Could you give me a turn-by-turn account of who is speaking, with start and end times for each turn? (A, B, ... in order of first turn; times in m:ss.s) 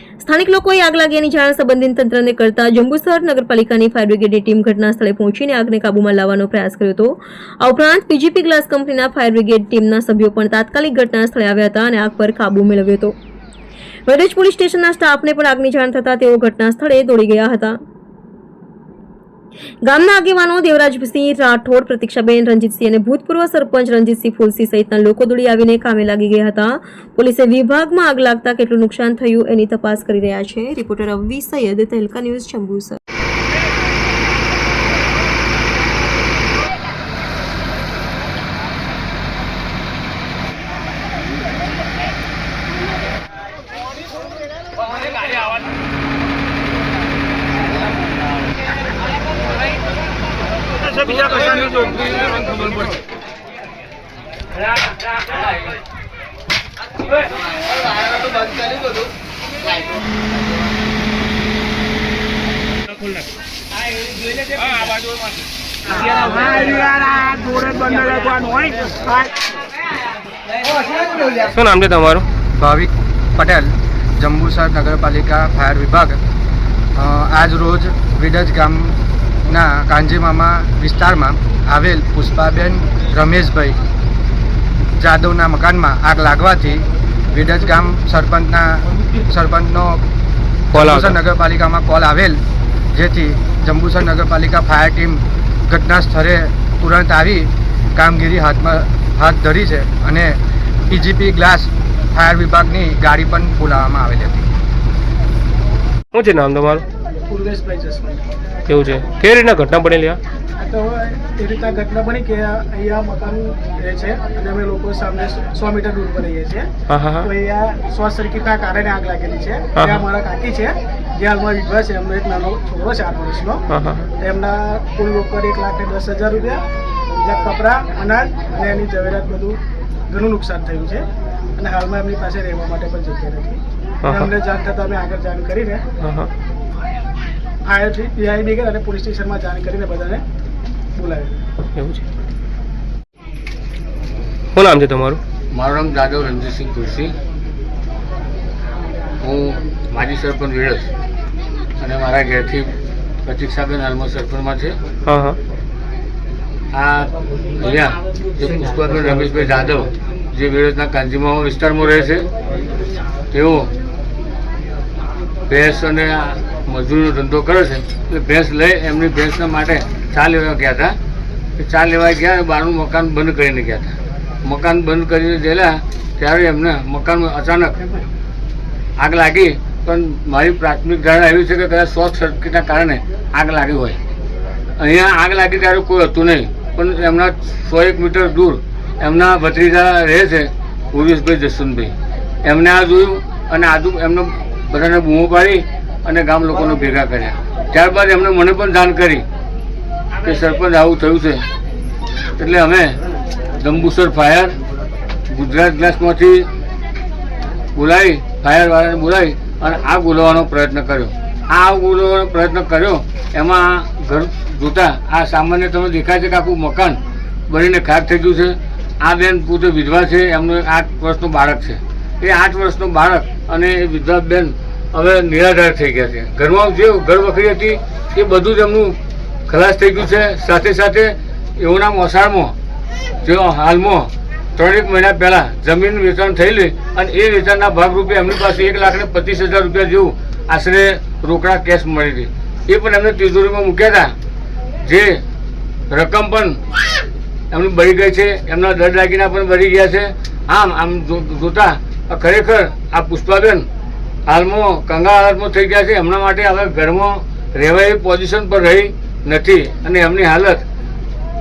0:00.2-0:13.1 A
0:14.1-0:17.8 A
0:19.8-0:33.0 A
1:11.2-1:12.2 B
1:12.6-1:16.2 C
1:17.0-1:18.9 C
1:19.5-1:23.8 C
1:25.0-1:30.0 C
1:30.7-1:32.4 C
1:30.7-1:31.2 B
1:32.9-1:40.3 C
1:40.9-1:44.5 C
1:46.1-1:46.8 B
1:47.3-1:48.2 D
1:48.7-1:50.2 B
1:50.6-1:56.7 D
1:56.9-1:57.3 B
1:57.2-2:03.6 D
1:59.8-2:00.0 B
2:03.7-2:04.1 B
2:04.2-2:09.6 D
2:10.1-2:11.0 D
2:11.6-2:15.8 D
2:14.0-2:14.3 B
2:16.0-2:16.3 B
2:17.6-2:20.2 D
2:21.0-2:21.4 D
2:21.7-2:22.0 B
2:24.5-2:25.2 B
2:25.5-2:27.1 E
2:29.2-2:30.9 E
2:31.8-2:32.7 E
2:33.2-2:34.8 E
2:35.1-2:35.4 B
2:36.7-2:42.3 E
2:43.3-2:43.7 E
2:45.5-2:51.0 E
2:51.6-2:57.9 E
2:59.0-3:04.0 E
3:04.8-3:19.2 E
3:20.2-3:21.4 E
3:22.4-3:23.0 E
3:23.6-3:24.6 E
3:25.3-3:26.5 E
3:27.7-3:52.5 E
3:53.2-4:04.1 E
4:04.8-4:05.2 E
4:05.9-4:06.6 E
4:07.5-4:13.6 E
4:14.3-4:20.6 E